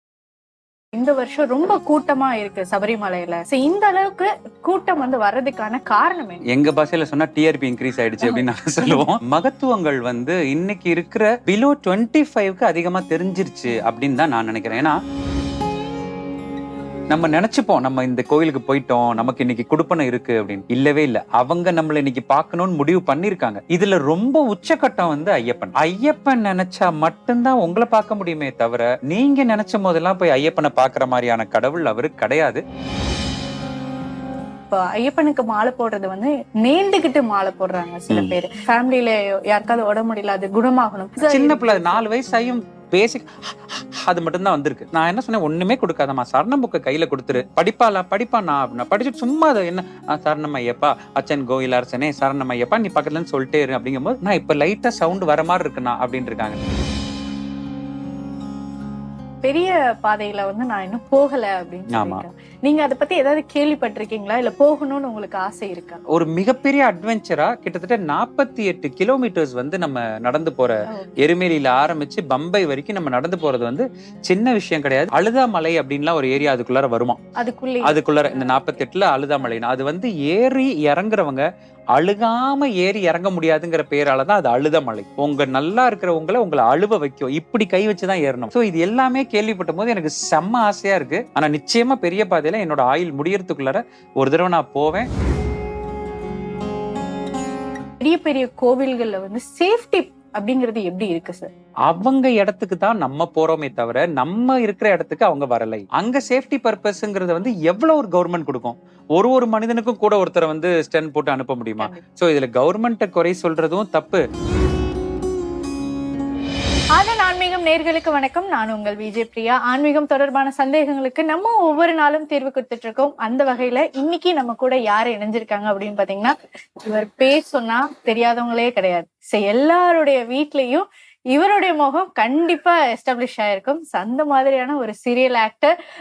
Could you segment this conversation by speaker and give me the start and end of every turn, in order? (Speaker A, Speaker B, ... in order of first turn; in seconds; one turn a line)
Speaker A: 0.9-6.4
Speaker B: 6.5-15.0
Speaker A: 8.2-9.0
Speaker B: 17.1-32.6
Speaker A: 34.7-42.0
Speaker B: 41.2-56.6
Speaker A: 59.4-66.0
Speaker B: 61.9-62.2
Speaker B: 66.1-77.2
Speaker A: 70.9-71.1
Speaker A: 77.4-78.8
Speaker B: 77.8-95.1
Speaker A: 98.0-101.5
Speaker B: 101.9-114.2
Speaker A: 111.8-112.0
Speaker A: 117.0-135.7